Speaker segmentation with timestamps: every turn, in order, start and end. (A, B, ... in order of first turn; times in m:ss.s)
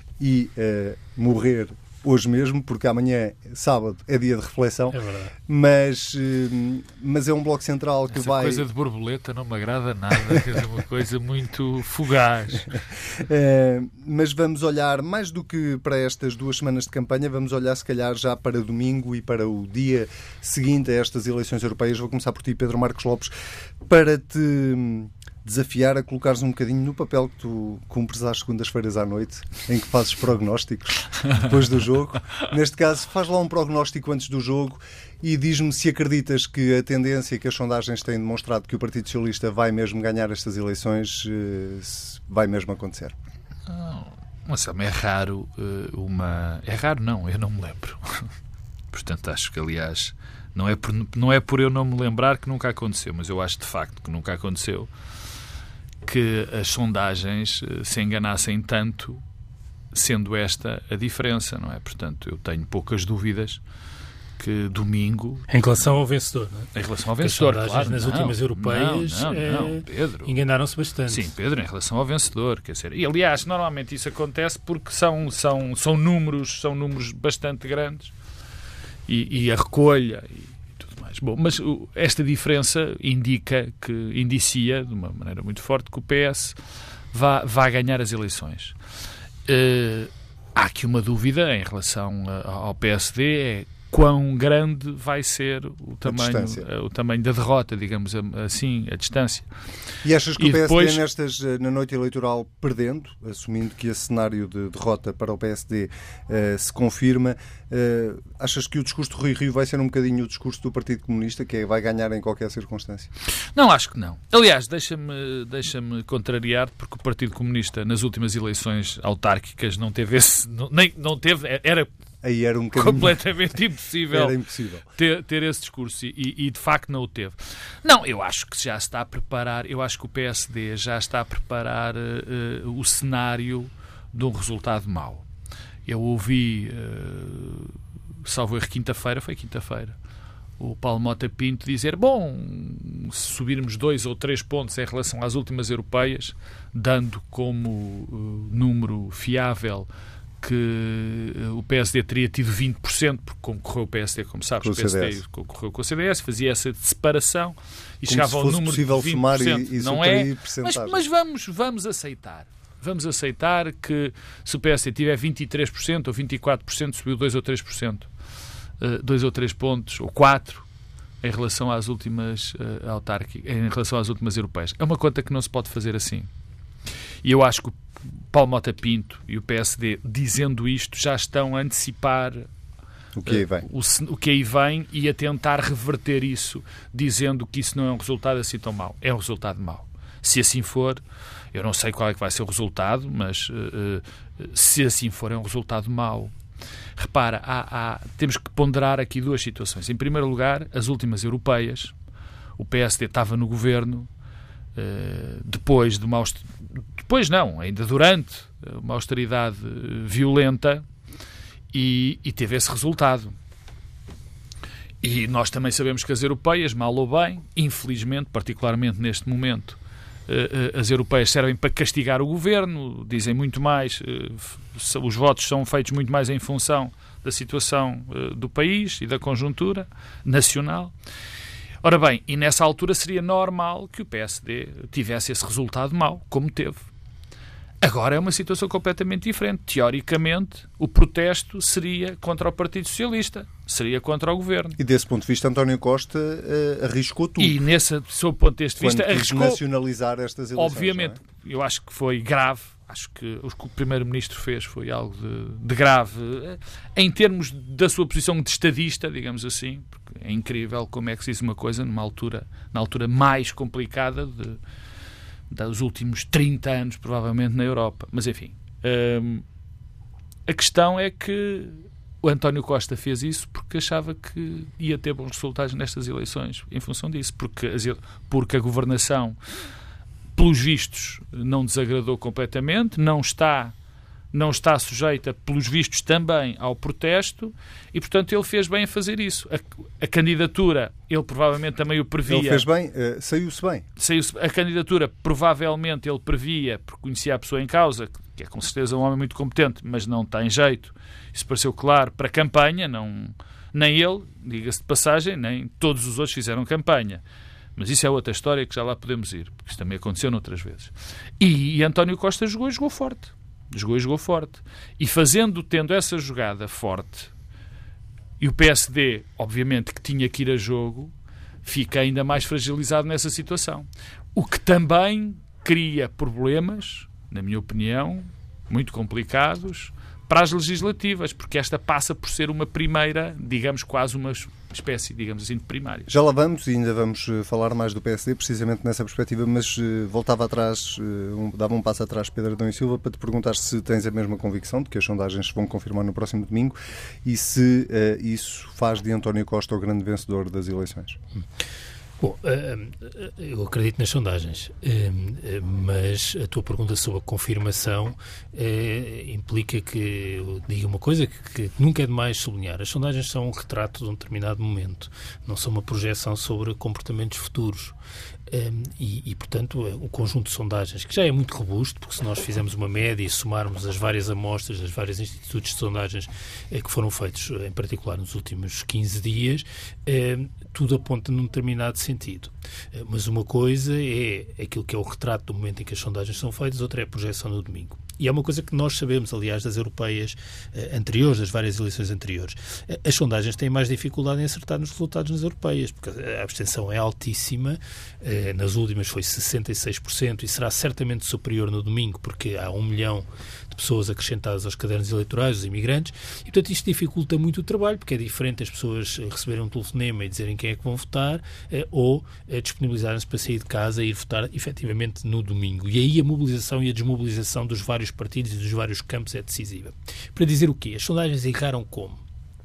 0:00.2-0:08.6 A
0:04.9-0:05.3 B
0:08.1-0:12.8 C
0:13.2-0:23.3 A
0:23.8-0:43.1 A
0:43.7-0:48.3 C
0:48.9-0:54.9 C
0:56.0-0:59.2 C
0:59.9-1:03.6 C
1:04.4-1:05.4 C
1:05.5-1:11.3 B
1:06.7-1:10.3 C
1:11.1-1:18.1 C
1:19.1-1:26.6 C
1:27.1-1:28.8 C
1:29.5-1:39.5 C
1:36.0-1:36.6 A
1:40.0-1:53.1 A
1:40.4-1:41.0 C
1:53.5-2:01.9 C
2:02.2-2:03.2 A
2:02.7-2:04.4 C
2:04.1-2:04.8 A
2:05.0-2:15.2 C
2:15.8-2:20.0 C
2:20.6-2:29.9 C
2:30.4-2:48.1 C
2:34.6-2:35.2 A
2:38.0-2:41.0 A
2:48.8-2:50.6 C
2:51.2-2:56.3 C
2:57.2-2:57.8 C
2:58.3-3:02.5 C
3:03.2-3:03.6 A
3:03.2-3:11.0 C
3:11.5-3:16.3 C
3:17.0-3:21.9 C
3:22.6-3:24.1 C
3:24.8-3:30.8 C
3:31.7-3:33.4 C
3:35.0-3:50.9 C
3:51.8-3:56.8 C
3:57.8-4:04.8 C
4:04.8-4:07.6 A
4:07.4-4:09.6 C
4:08.8-4:11.2 A
4:10.6-4:24.6 C
4:25.5-4:29.4 C
4:30.5-4:39.4 C
4:40.3-4:43.7 C
4:44.3-4:52.6 C
4:52.3-4:53.8 A
4:54.0-5:07.2 C
5:07.8-5:17.3 C
5:18.4-5:21.1 C
5:21.6-5:36.1 C
5:36.1-5:51.2 A
5:52.2-6:07.9 B
6:08.5-7:02.2 B